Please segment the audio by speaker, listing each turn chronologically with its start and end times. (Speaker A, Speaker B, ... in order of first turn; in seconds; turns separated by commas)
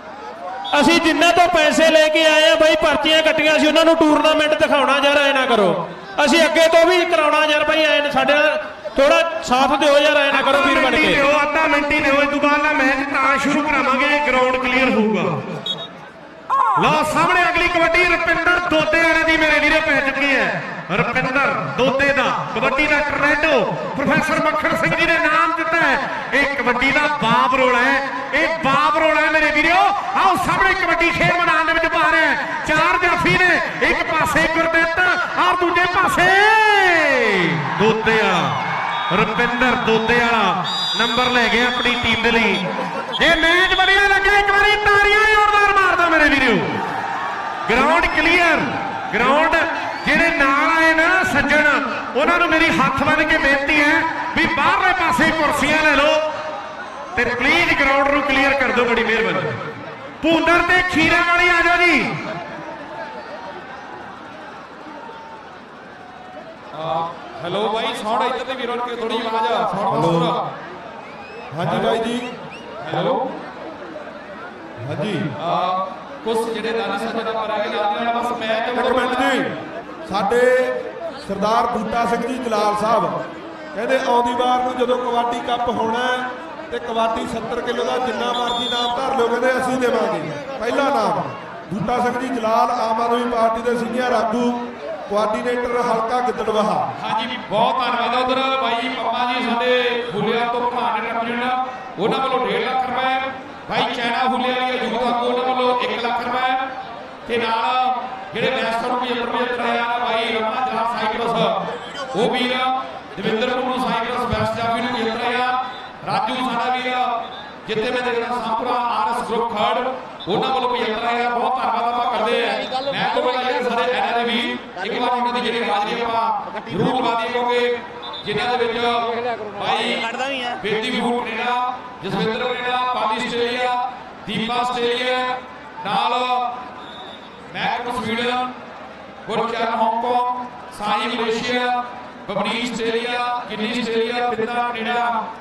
Speaker A: 0.7-11.2, Speaker B: 10.3-15.4, Speaker B: 16.8-42.6, Speaker B: 43.2-46.8, Speaker B: 47.7-56.2, Speaker B: 57.1-59.6, Speaker B: 60.2-62.2, Speaker C: 66.7-70.4, Speaker D: 69.9-70.3, Speaker D: 71.5-72.3, Speaker C: 72.8-73.2, Speaker D: 74.8-75.2, Speaker C: 75.4-79.3, Speaker D: 78.8-79.5, Speaker D: 80.1-83.2, Speaker D: 83.7-96.8, Speaker C: 97.0-106.6, Speaker C: 107.3-111.6, Speaker C: 112.1-117.1, Speaker C: 117.7-136.5, Speaker C: 137.5-138.5, Speaker C: 139.3-145.2